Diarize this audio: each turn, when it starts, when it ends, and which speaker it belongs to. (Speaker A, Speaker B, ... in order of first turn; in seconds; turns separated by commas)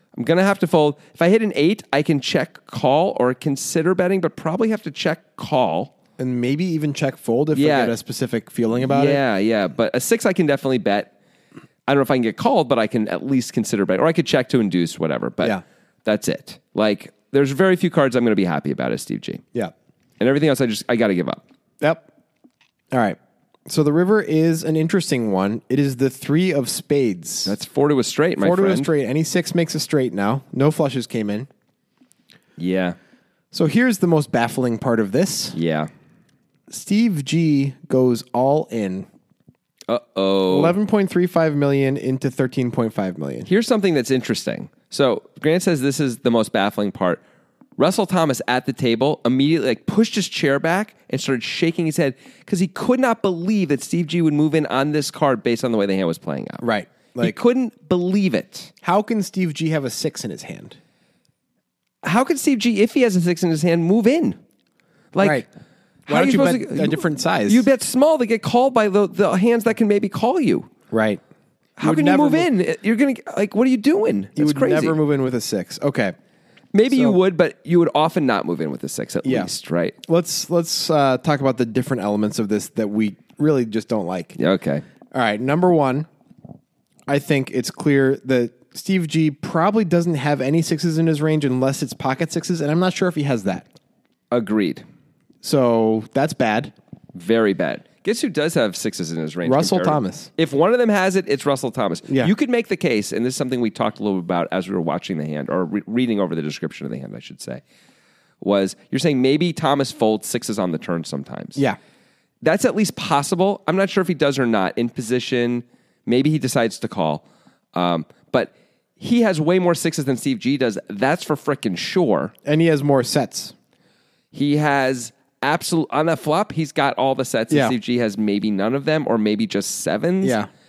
Speaker A: 0.2-5.9, Speaker B: 6.2-9.2, Speaker A: 7.5-7.9, Speaker A: 8.8-11.1, Speaker A: 11.9-19.4, Speaker A: 20.2-21.4, Speaker B: 22.9-27.5, Speaker A: 27.4-28.9, Speaker B: 28.4-31.5, Speaker A: 32.6-33.0, Speaker B: 33.5-35.6, Speaker A: 35.5-35.9, Speaker B: 36.7-39.1, Speaker A: 39.9-40.8, Speaker B: 40.5-43.5, Speaker A: 43.5-47.2, Speaker A: 47.8-56.6, Speaker B: 56.6-57.4, Speaker A: 57.2-58.7, Speaker B: 58.8-60.8, Speaker A: 62.0-64.4, Speaker A: 65.1-65.5, Speaker B: 65.2-65.5, Speaker A: 66.1-70.7, Speaker B: 66.1-67.7, Speaker B: 70.9-71.2, Speaker B: 71.8-72.5, Speaker A: 71.8-75.0, Speaker B: 74.4-76.2, Speaker A: 76.7-80.0, Speaker B: 76.9-77.2, Speaker B: 79.2-79.5, Speaker B: 80.0-84.4, Speaker A: 84.4-84.8, Speaker B: 85.1-86.1, Speaker B: 87.1-93.7, Speaker A: 94.3-94.8, Speaker B: 95.4-96.7, Speaker A: 97.1-107.6, Speaker B: 99.5-100.3, Speaker A: 108.4-111.6, Speaker A: 112.4-122.3, Speaker B: 122.5-123.5, Speaker A: 124.3-130.4, Speaker B: 127.5-127.8, Speaker B: 130.2-130.5